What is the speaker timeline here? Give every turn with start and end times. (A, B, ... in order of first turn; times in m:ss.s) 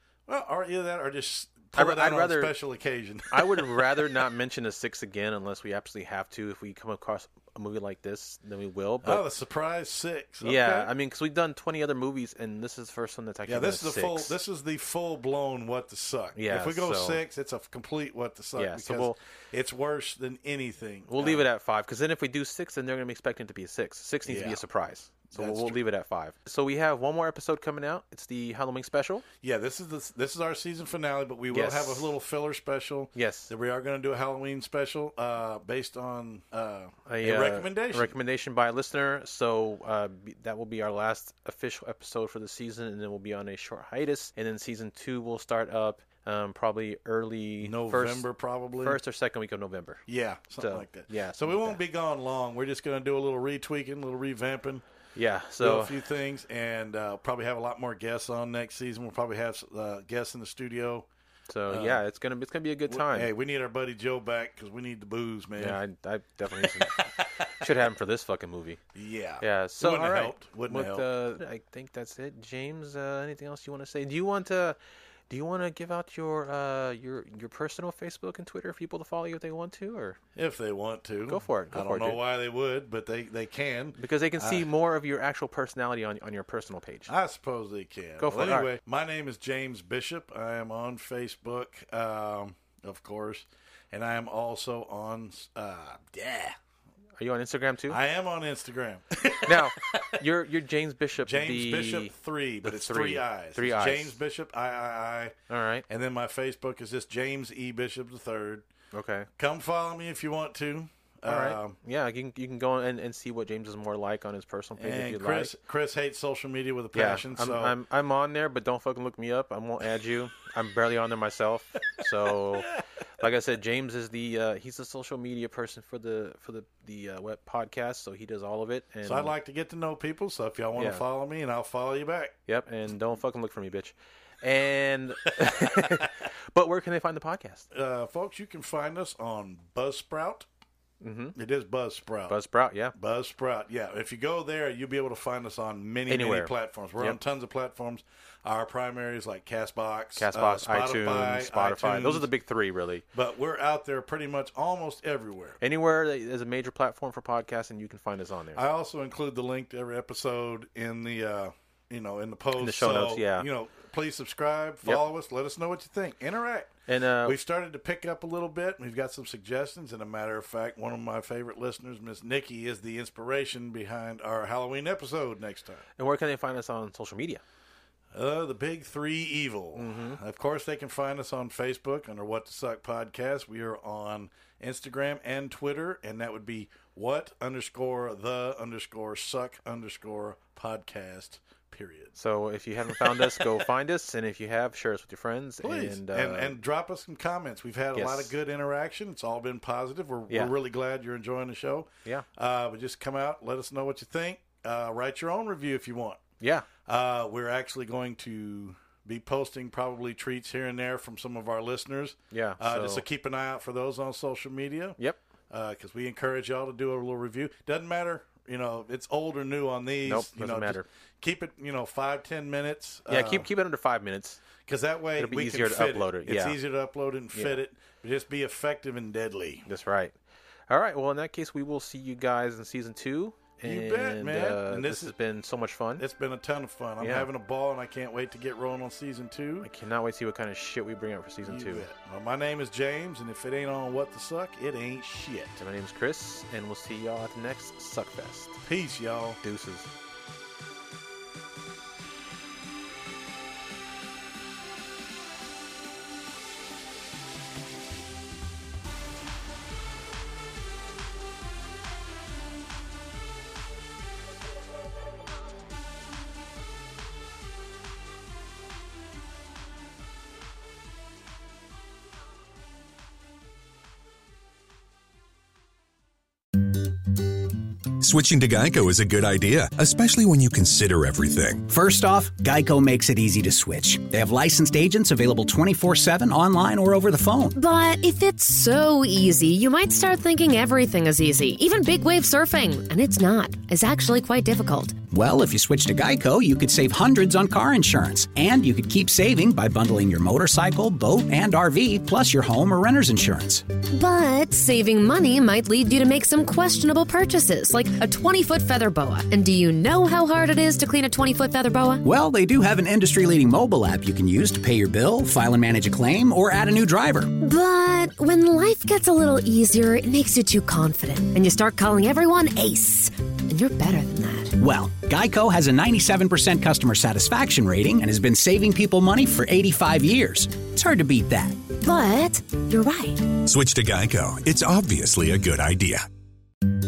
0:00.3-0:04.2 A
0:01.8-0:02.6 B
0:03.3-0:09.2 B
0:09.0-0:10.9 A
0:10.4-0:14.4 B
0:13.5-0:21.4 A
0:16.4-0:17.2 B
0:18.6-0:19.2 B
0:21.1-0:29.2 B
0:24.2-0:24.6 A
0:25.3-0:25.8 A
0:29.4-0:38.1 A
0:31.5-0:32.1 B
0:33.2-0:33.5 B
0:37.1-0:50.0 B
0:47.6-0:49.0 A
0:50.1-0:54.8 A
0:50.6-0:51.8 B
0:55.2-0:56.0 B
0:55.6-1:01.1 A
1:01.5-1:03.3 B
1:01.7-1:02.0 A
1:02.9-1:05.8 A
1:05.6-1:07.0 B
1:06.6-1:07.7 A
1:07.6-1:08.8 B
1:09.0-1:11.1 A
1:09.4-1:14.8 B
1:15.3-1:20.2 B
1:20.4-1:24.7 A
1:21.3-1:22.2 B
1:24.0-1:27.1 B
1:27.1-1:36.6 A
1:28.2-1:28.7 B
1:37.2-1:38.0 B
1:37.9-1:40.2 A
1:39.4-1:44.2 B
1:41.2-1:45.4 A
1:45.5-1:45.8 B
1:45.9-1:48.7 A
1:48.9-1:49.3 B
1:49.4-1:51.8 A
1:51.2-1:55.5 B
1:54.8-1:57.8 A
1:56.9-2:09.3 B
2:09.0-2:12.4 A
2:10.8-2:11.0 B
2:12.5-2:17.7 B
2:15.4-2:16.1 A
2:17.7-2:20.5 A
2:21.0-2:21.4 B
2:21.4-2:22.4 A
2:22.3-2:23.0 B
2:22.9-2:32.3 A
2:26.1-2:27.2 B
2:30.2-2:33.0 B
2:33.1-2:35.6 A
2:35.6-2:38.6 B
2:38.6-2:55.8 A
2:42.6-2:43.5 B
2:46.9-2:47.4 B
2:56.0-2:57.4 B
2:58.1-3:12.2 A
2:59.8-3:00.2 B
3:12.2-3:16.6 B
3:12.8-3:13.6 A
3:15.6-3:26.2 A
3:18.0-3:18.3 B
3:20.3-3:20.5 B
3:26.4-3:26.7 B
3:26.8-3:35.0 A
3:32.3-3:33.0 B
3:35.5-3:43.5 A
3:40.0-3:40.9 B
3:43.1-3:44.4 B
3:44.6-3:49.7 A
3:45.2-3:46.6 B
3:47.3-3:47.6 B
3:49.7-3:50.2 B
3:50.7-3:56.0 B
3:53.6-3:55.1 A
3:56.0-3:59.7 A
3:57.0-3:57.3 B
3:59.6-4:01.9 B
4:01.4-4:05.6 A
4:05.6-4:08.6 B
4:08.6-4:09.4 A
4:09.4-4:09.9 B
4:38.0-4:41.7 C
4:41.7-4:47.6 D
4:47.6-4:55.0 E
4:55.1-5:03.6 D
5:03.9-5:12.0 E
5:12.0-5:17.3 D
5:17.4-5:24.6 E
5:24.6-5:31.6 D
5:31.8-5:33.3 E
5:33.4-5:36.0 C